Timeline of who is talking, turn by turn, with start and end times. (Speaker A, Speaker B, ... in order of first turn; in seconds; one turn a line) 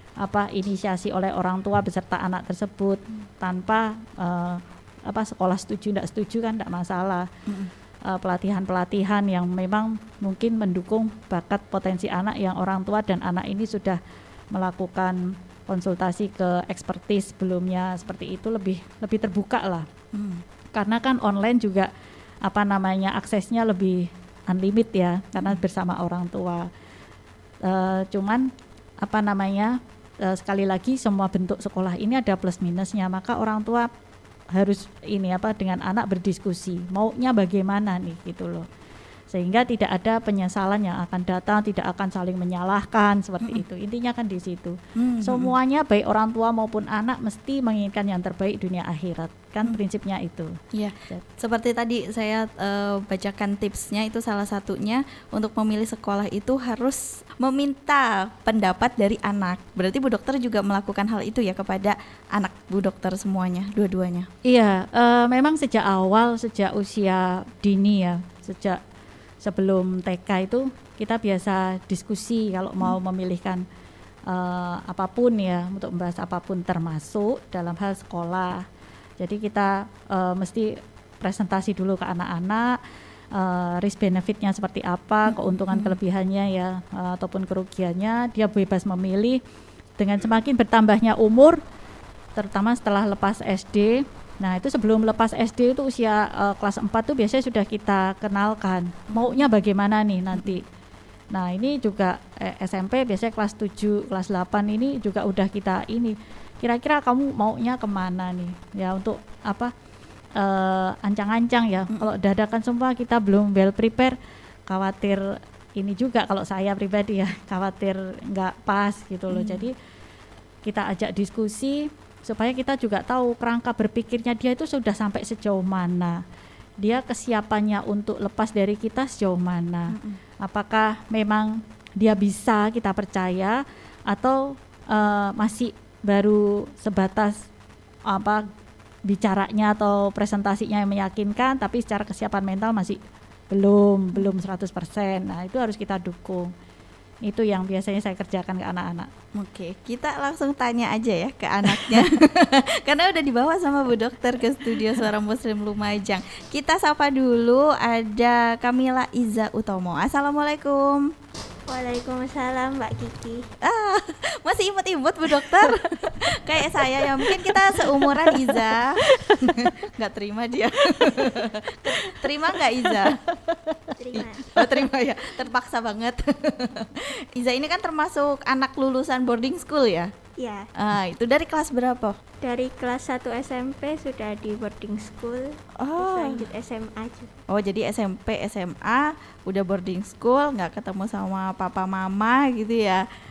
Speaker A: 0.2-7.3
Speaker A: 8.1-14.0
Speaker A: 14.5-19.9
Speaker B: 20.1-20.4
Speaker A: 20.7-21.9
Speaker A: 22.4-26.7
Speaker A: 27.6-28.5
Speaker A: 29.0-33.9
Speaker A: 34.5-38.7
Speaker A: 39.3-50.6
Speaker B: 45.0-45.5
Speaker B: 50.7-64.3
Speaker A: 64.5-68.8
Speaker A: 69.4-73.6
Speaker A: 74.3-78.7
Speaker A: 79.2-82.8
Speaker A: 83.3-89.4
Speaker B: 85.2-86.0
Speaker A: 90.0-91.6
Speaker A: 92.3-100.6
Speaker B: 99.1-99.5
Speaker A: 101.3-109.7
Speaker A: 110.3-114.2
Speaker A: 114.7-119.7
Speaker B: 119.3-119.7
Speaker A: 120.6-126.2
Speaker A: 126.8-137.5
Speaker B: 129.9-130.2
Speaker A: 138.1-138.4
Speaker A: 139.1-143.0
Speaker A: 143.5-146.5
Speaker A: 147.2-149.1
Speaker B: 149.3-161.1
Speaker C: 161.7-163.5
Speaker B: 163.6-173.2
Speaker A: 165.4-165.8
Speaker A: 167.2-169.8
Speaker A: 171.0-171.3
Speaker A: 172.0-173.9
Speaker C: 174.0-174.8
Speaker B: 174.1-180.1
Speaker C: 180.4-180.7
Speaker B: 180.7-182.2
Speaker C: 182.4-187.4
Speaker B: 185.8-186.4
Speaker B: 187.5-193.0